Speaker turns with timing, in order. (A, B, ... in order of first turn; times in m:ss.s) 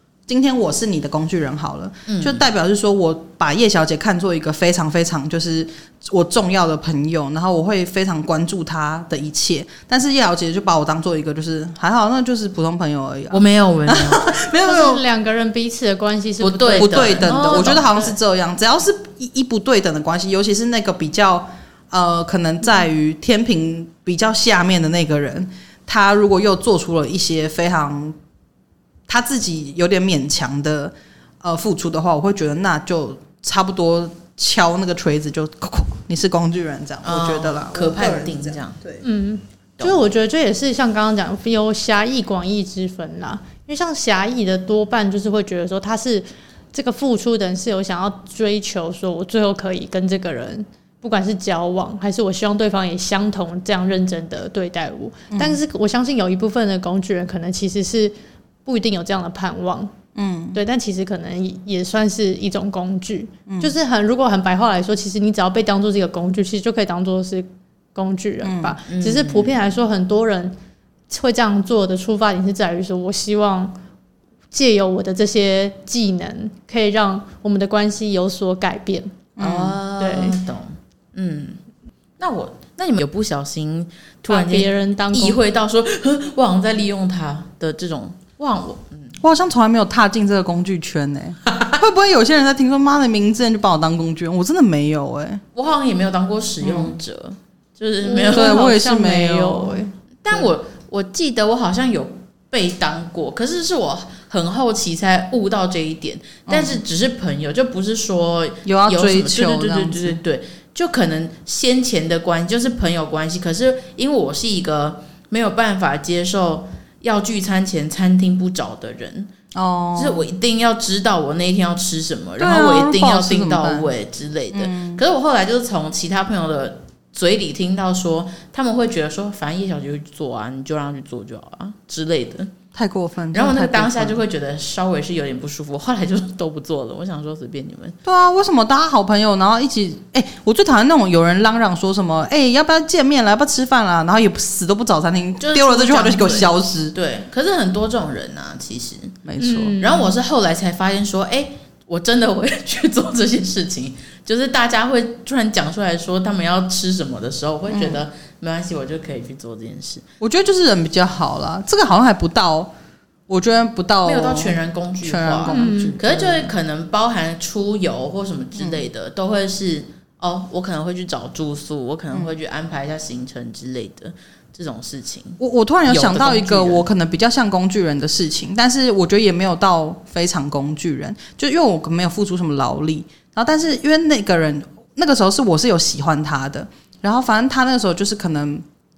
0:00.3-0:15.0 A
0:02.1-0:02.4 B
0:13.3-0:14.3 B
0:14.6-0:17.7 C
0:16.4-0:18.2 B
0:16.7-0:28.2 A
0:29.1-0:39.0 A
0:37.0-0:38.8 B
0:39.0-0:58.1 C
0:55.3-0:55.6 A
0:58.6-0:59.9 C
1:00.1-1:00.6 A
1:00.5-1:10.6 C
1:03.5-1:03.7 A
1:08.4-1:08.8 A
1:08.9-1:09.5 B
1:11.1-1:13.7 C
1:14.5-1:19.2 C
1:19.4-1:19.8 A
1:19.4-1:21.6 B
1:20.0-1:20.4 C
1:22.2-1:29.2 B
1:24.2-1:25.4 C
1:29.2-1:35.4 A
1:35.5-1:38.6 B
1:36.6-1:37.0 A
1:38.0-1:39.9 C
1:38.3-1:39.8 A
1:40.2-1:59.3 B
1:46.5-1:46.8 A
1:48.6-1:50.2 A
1:59.5-2:00.3 A
2:00.0-2:12.5 B
2:02.4-2:03.9 A
2:04.5-2:05.0 A
2:12.7-2:14.2 A
2:13.3-2:18.0 B
2:18.0-2:26.9 A
2:25.4-2:29.2 B
2:29.2-2:29.8 A
2:29.4-2:30.1 C
2:29.8-2:40.0 B
2:37.7-2:38.0 A
2:40.2-2:42.7 A
2:43.3-2:46.5 A
2:44.0-2:56.8 B
2:45.5-2:46.0 C
2:48.6-2:48.8 A
2:55.4-3:08.6 A